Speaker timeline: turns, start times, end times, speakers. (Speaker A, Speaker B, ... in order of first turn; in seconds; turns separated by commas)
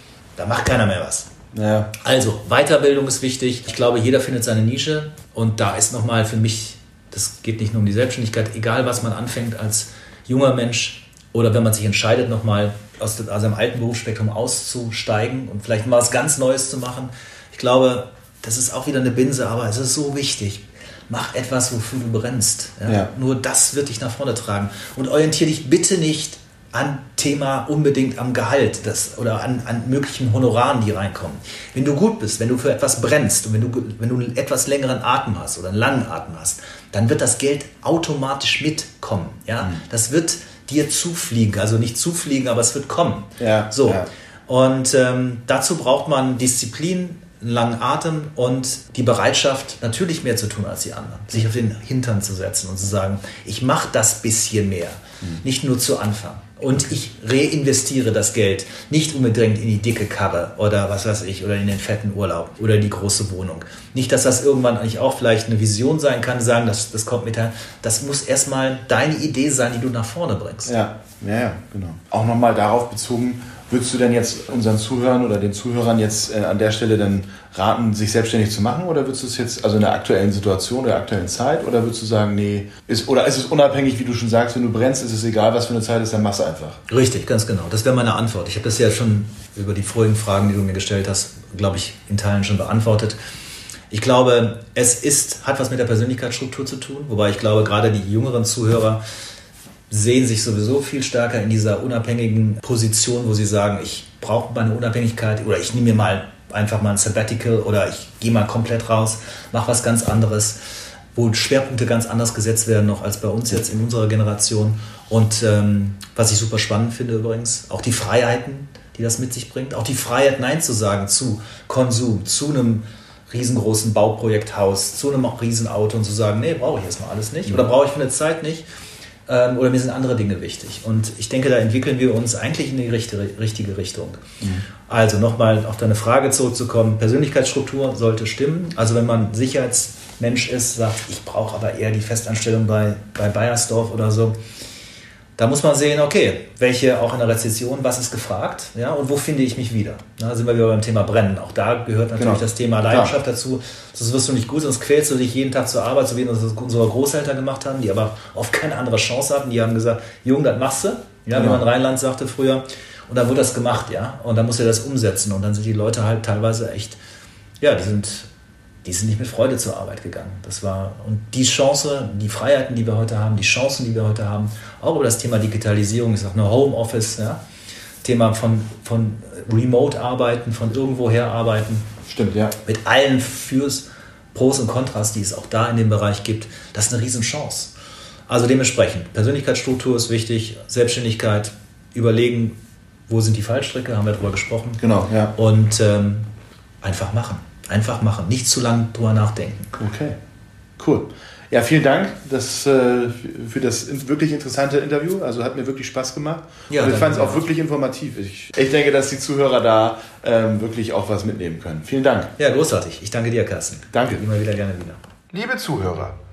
Speaker A: 0.4-1.3, Speaker B: 1.5-1.9, Speaker A: 2.0-70.7, Speaker B: 43.4-44.1, Speaker B: 70.7-86.8, Speaker A: 86.9-93.2, Speaker A: 93.9-99.0, Speaker A: 99.9-110.6, Speaker A: 111.1-128.7, Speaker A: 129.3-134.2, Speaker A: 134.9-144.3, Speaker A: 145.4-167.0, Speaker B: 152.2-153.2, Speaker B: 161.3-161.6, Speaker A: 167.6-168.3, Speaker A: 168.8-177.4, Speaker A: 178.0-181.9, Speaker B: 182.1-182.5, Speaker A: 182.6-187.7, Speaker A: 188.3-192.6, Speaker A: 193.1-196.3, Speaker B: 194.8-195.3, Speaker A: 196.8-199.8, Speaker B: 199.8-200.2, Speaker B: 200.8-212.3, Speaker A: 206.7-207.4, Speaker A: 212.4-215.0, Speaker B: 213.9-214.2, Speaker B: 215.3-216.2